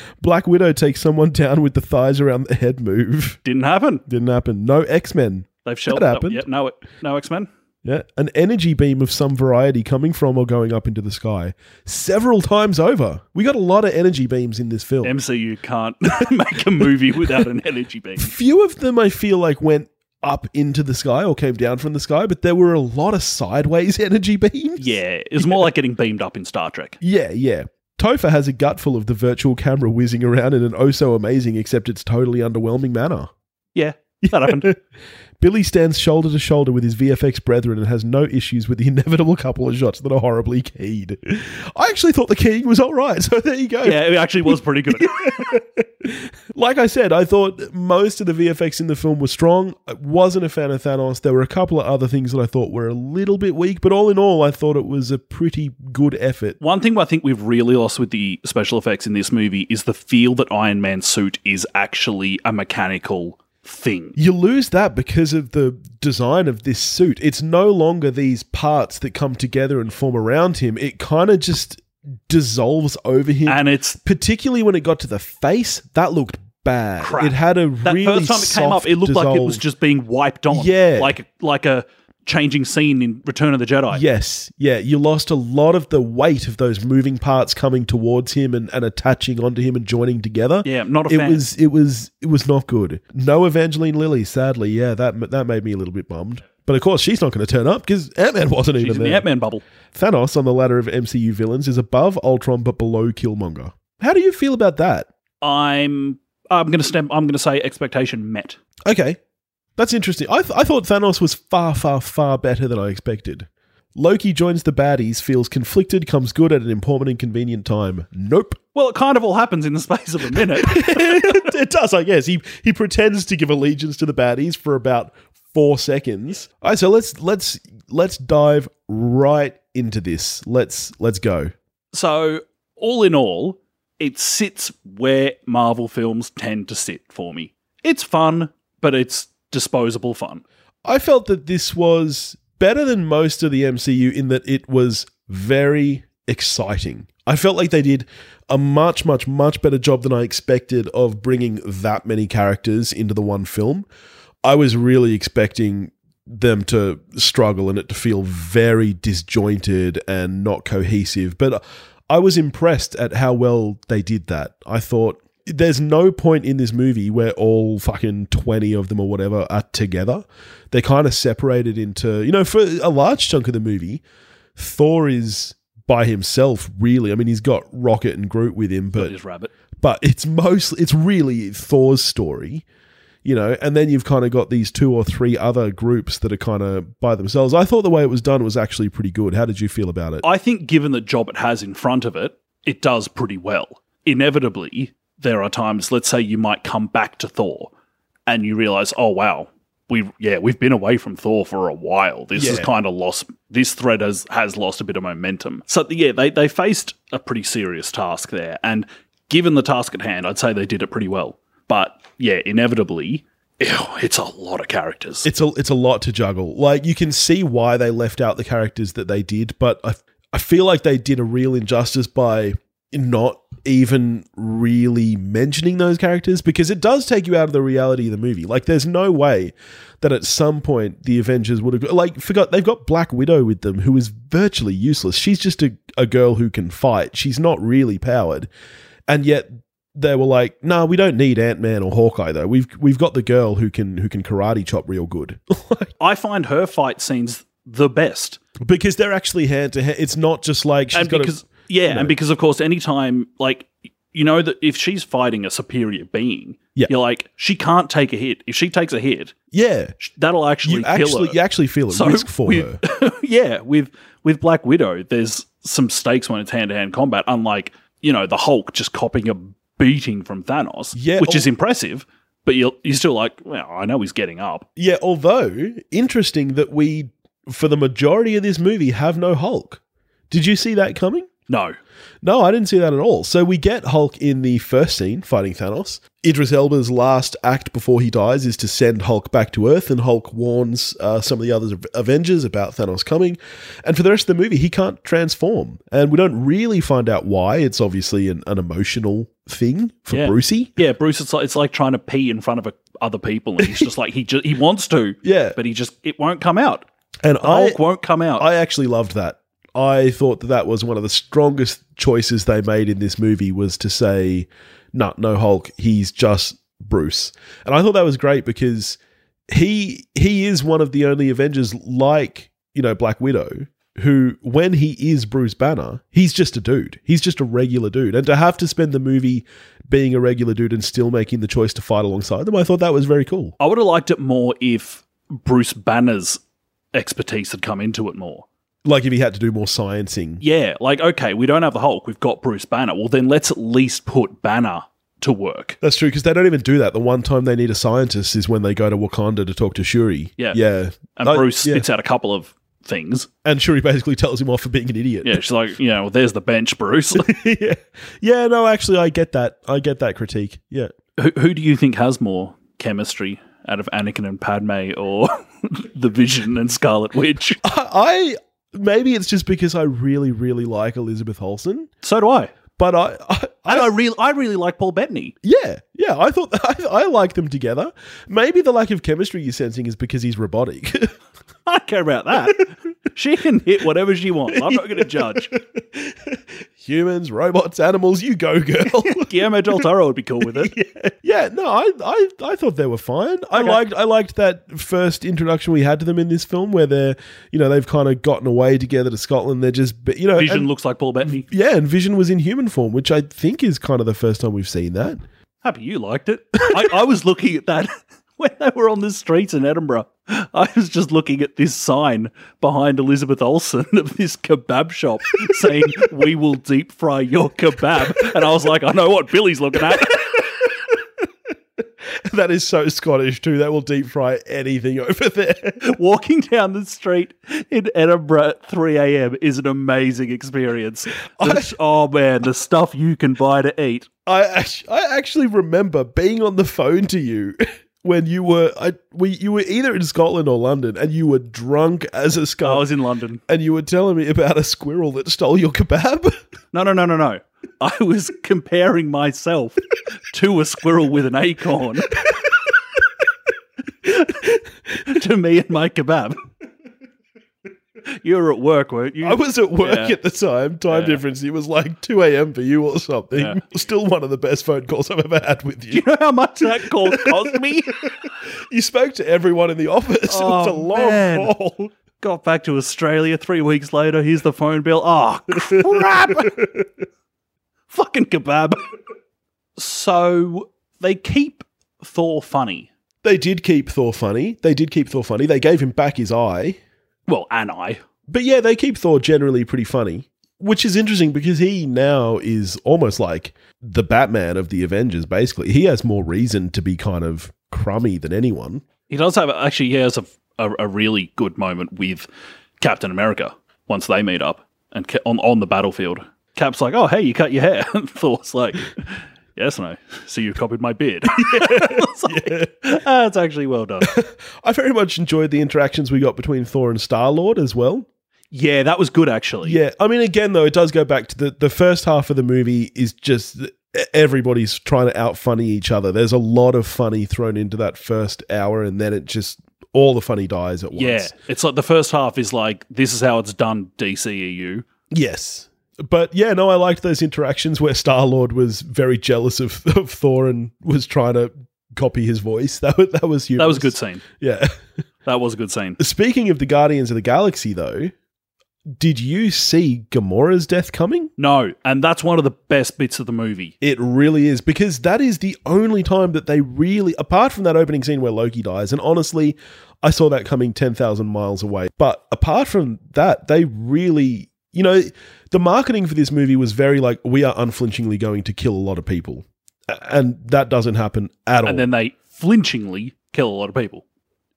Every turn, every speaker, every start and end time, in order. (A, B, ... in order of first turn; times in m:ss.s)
0:00.2-0:03.4 A
0:03.4-0:04.0 B
0:04.1-0:06.4 A
0:05.6-0:07.5 B
0:07.8-0:15.1 A
0:15.0-0:18.3 B
0:18.2-0:25.7 A
0:24.8-0:27.0 B
0:27.0-0:33.3 A
0:33.7-0:34.7 B
0:34.2-0:34.8 A
0:35.4-0:56.6 A
0:43.8-0:45.5 B
0:56.6-1:04.2 B
1:04.2-1:19.6 A
1:13.4-1:14.0 B
1:17.0-1:24.0 B
1:20.5-1:21.1 A
1:23.9-1:39.2 A
1:30.6-1:31.4 B
1:38.8-1:39.6 B
1:39.9-1:45.1 A
1:45.4-1:48.6 B
1:48.8-1:49.2 A
1:49.8-1:58.6 A
1:58.7-2:01.5 B
2:00.6-2:11.5 A
2:11.9-2:20.4 B
2:20.8-2:33.8 A
2:34.4-2:54.0 A
2:54.6-2:59.1 A
2:59.0-2:59.5 B
2:59.8-3:02.6 A
3:03.2-3:10.2 A
3:10.2-3:17.7 B
3:18.3-3:35.3 B
3:22.3-3:22.7 A
3:35.2-3:58.5 A
3:59.1-4:05.9 A
4:06.0-4:08.4 B
4:08.6-4:11.4 A
4:10.9-4:19.3 B
4:11.9-4:12.1 A
4:19.5-4:19.9 A
4:20.0-4:21.4 B
4:20.6-4:22.8 A
4:21.9-4:34.6 B
4:30.9-4:31.5 A
4:34.8-4:41.3 A
4:41.5-4:41.8 B
4:42.2-5:00.7 A
5:00.1-5:06.8 B
5:03.6-5:03.9 A
5:05.2-5:05.6 A
5:07.2-5:07.8 A
5:07.4-5:08.4 B
5:08.4-5:19.0 A
5:19.5-5:33.5 A
5:33.6-5:36.4 B
5:36.9-5:38.4 B
5:38.8-5:40.4 A
5:40.4-5:45.8 B
5:45.8-5:51.8 A
5:51.1-5:53.3 B
5:53.4-5:55.4 A
5:55.2-5:57.3 B
5:57.2-6:00.9 A
6:01.2-6:07.6 B
6:07.6-6:11.9 A
6:12.0-6:12.5 B
6:12.8-6:13.9 A
6:13.7-6:15.4 B
6:15.4-6:21.1 A
6:21.6-6:25.5 B
6:24.5-6:29.8 A
6:29.0-6:30.7 B
6:30.4-6:40.7 A
6:33.5-6:33.8 B
6:40.4-6:41.4 B
6:41.4-6:45.2 A
6:45.6-7:00.5 B
7:00.0-7:00.4 A
7:02.0-7:05.8 A
7:05.8-7:14.1 B
7:11.4-7:11.7 A
7:14.2-7:22.8 A
7:22.6-7:23.4 B
7:23.5-7:26.3 A
7:26.7-7:32.3 B
7:32.2-7:32.7 A
7:34.0-7:34.7 A
7:34.0-7:34.3 B
7:35.0-7:36.4 B
7:38.2-7:40.1 B
7:39.2-7:46.0 A
7:40.9-7:41.2 B
7:43.3-7:43.6 B
7:45.9-7:48.0 B
7:46.8-7:47.6 A
7:48.7-7:51.9 A
7:50.3-7:51.5 B
7:52.2-7:56.6 B
7:55.7-7:56.9 A
7:57.9-7:58.8 B
7:59.8-8:02.9 B
8:03.2-8:06.8 A
8:07.3-8:08.0 B
8:08.3-8:18.8 A
8:19.1-8:22.3 B
8:22.8-8:34.1 B
8:31.3-8:32.7 A
8:34.0-8:38.1 A
8:38.5-8:39.8 B
8:39.6-8:51.3 A
8:50.9-8:54.8 B
8:55.1-9:04.7 A
9:03.6-9:04.2 B
9:05.2-9:06.0 B
9:06.0-9:08.1 A
9:08.9-9:11.3 A
9:11.4-9:13.7 B
9:13.8-9:31.9 A
9:31.6-9:34.0 B